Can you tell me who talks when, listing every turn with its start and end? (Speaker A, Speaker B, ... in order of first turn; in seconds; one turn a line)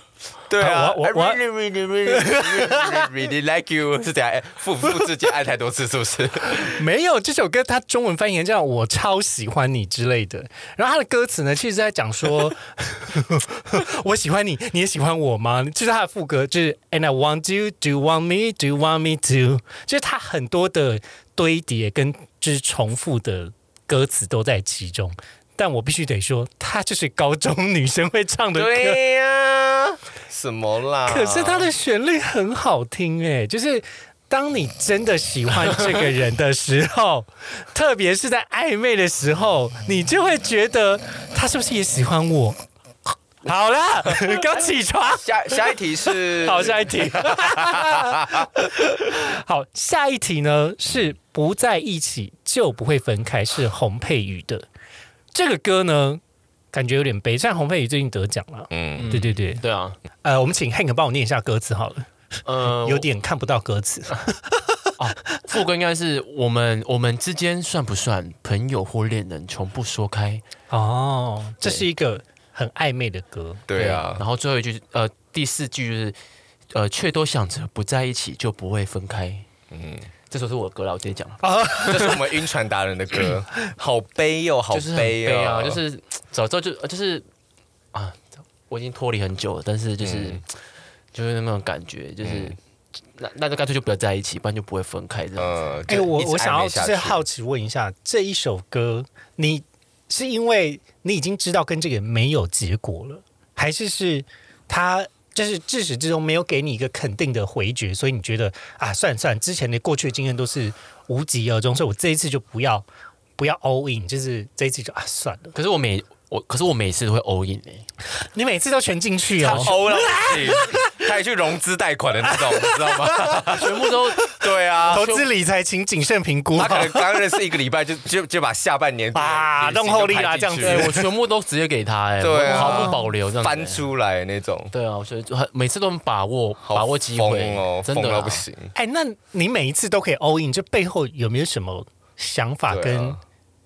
Speaker A: 0.5-6.8
Speaker B: 0.6-1.4
Speaker B: 2.0-3.1
Speaker B: 6.5-29.0
Speaker A: 28.5-31.7
Speaker B: 31.1-42.6
Speaker B: 43.4-54.7
Speaker A: 45.1-48.5
Speaker B: 55.3-56.2
Speaker B: 56.7-59.6
Speaker A: 58.7-59.2
Speaker C: 59.0-60.0
Speaker B: 60.2-62.1
Speaker C: 62.4-63.1
Speaker B: 62.6-64.9
Speaker C: 65.0-70.4
Speaker B: 70.7-73.7
Speaker A: 73.7-74.2
Speaker C: 73.7-76.2
Speaker C: 76.7-79.4
Speaker A: 79.7-80.1
Speaker C: 80.3-81.4
Speaker B: 81.4-82.2
Speaker A: 81.8-85.8
Speaker C: 84.7-87.2
Speaker C: 87.9-90.5
Speaker A: 90.0-90.4
Speaker C: 91.1-92.6
Speaker A: 92.2-92.5
Speaker C: 93.2-95.7
Speaker A: 95.4-97.2
Speaker B: 95.9-112.8
Speaker B: 113.4-115.5
Speaker C: 115.5-117.8
Speaker B: 118.2-120.9
Speaker A: 119.4-125.0
Speaker B: 122.2-123.6
Speaker C: 123.5-124.3
Speaker B: 124.2-127.3
Speaker C: 124.9-125.2
Speaker A: 126.5-131.0
Speaker B: 129.1-131.0
Speaker C: 130.6-133.8
Speaker A: 132.2-134.7
Speaker B: 132.4-133.0
Speaker C: 134.7-138.4
Speaker A: 136.6-138.7
Speaker B: 138.7-143.2
Speaker A: 142.7-143.2